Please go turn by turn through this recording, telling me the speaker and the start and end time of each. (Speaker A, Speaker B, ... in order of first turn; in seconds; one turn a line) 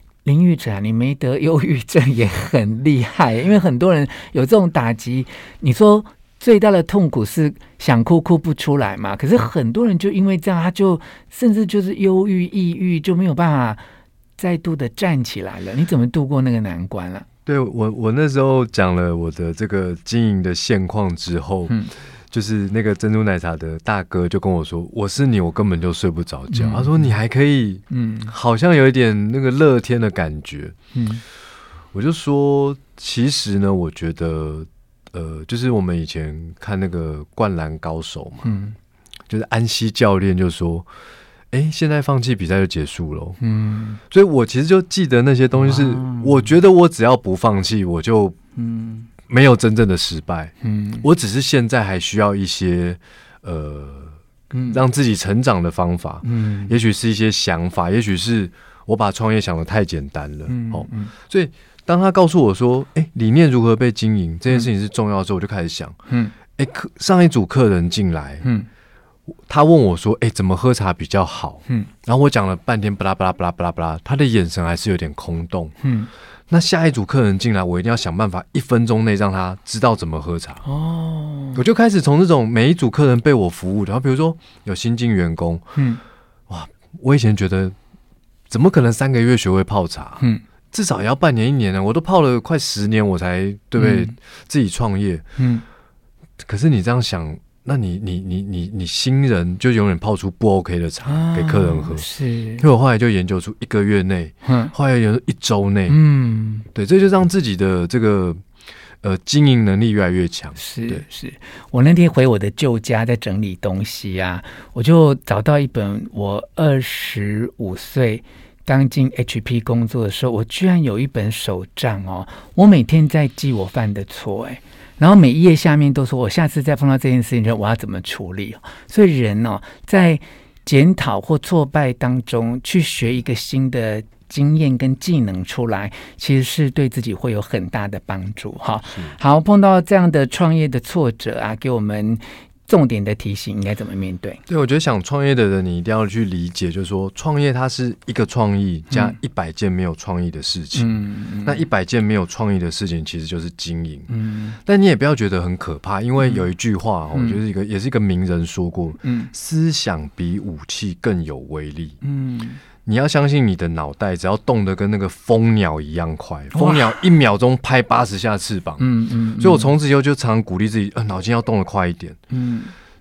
Speaker A: 0.2-13.8
Speaker A: 14.4-17.3
Speaker B: 17.5-21.8
Speaker B: 22.3-30.8
Speaker A: 26.5-27.2
Speaker A: 27.9-28.3
Speaker A: 30.9-31.2
Speaker B: 31.9-38.5
Speaker A: 38.4-38.8
Speaker B: 39.3-40.9
Speaker B: 41.5-43.4
Speaker A: 43.4-44.0
Speaker B: 44.1-48.4
Speaker A: 45.5-46.5
Speaker A: 48.6-49.1
Speaker B: 49.3-66.0
Speaker A: 50.6-51.1
Speaker A: 54.5-54.8
Speaker A: 56.2-56.8
Speaker A: 60.5-61.1
Speaker B: 66.5-68.5
Speaker A: 68.4-68.7
Speaker B: 69.3-75.8
Speaker A: 75.8-76.1
Speaker B: 76.5-80.7
Speaker A: 80.7-81.6
Speaker B: 81.5-85.8
Speaker A: 85.8-86.0
Speaker B: 86.5-87.8
Speaker B: 88.5-95.3
Speaker A: 93.8-94.2
Speaker A: 95.4-95.7
Speaker B: 96.4-102.1
Speaker A: 101.0-102.7
Speaker B: 102.6-106.0
Speaker A: 104.4-104.7
Speaker A: 105.9-106.7
Speaker B: 106.7-108.4
Speaker B: 109.0-111.0
Speaker A: 110.6-144.4
Speaker B: 138.9-139.2
Speaker B: 144.5-154.1
Speaker A: 148.9-149.2
Speaker A: 150.7-151.7
Speaker A: 154.1-154.6
Speaker B: 154.6-162.0
Speaker A: 156.2-156.5
Speaker A: 157.1-157.4
Speaker A: 159.0-159.3
Speaker A: 162.0-162.6
Speaker B: 162.8-168.9
Speaker A: 166.5-167.1
Speaker A: 168.8-169.7
Speaker B: 169.4-172.2
Speaker A: 172.3-172.7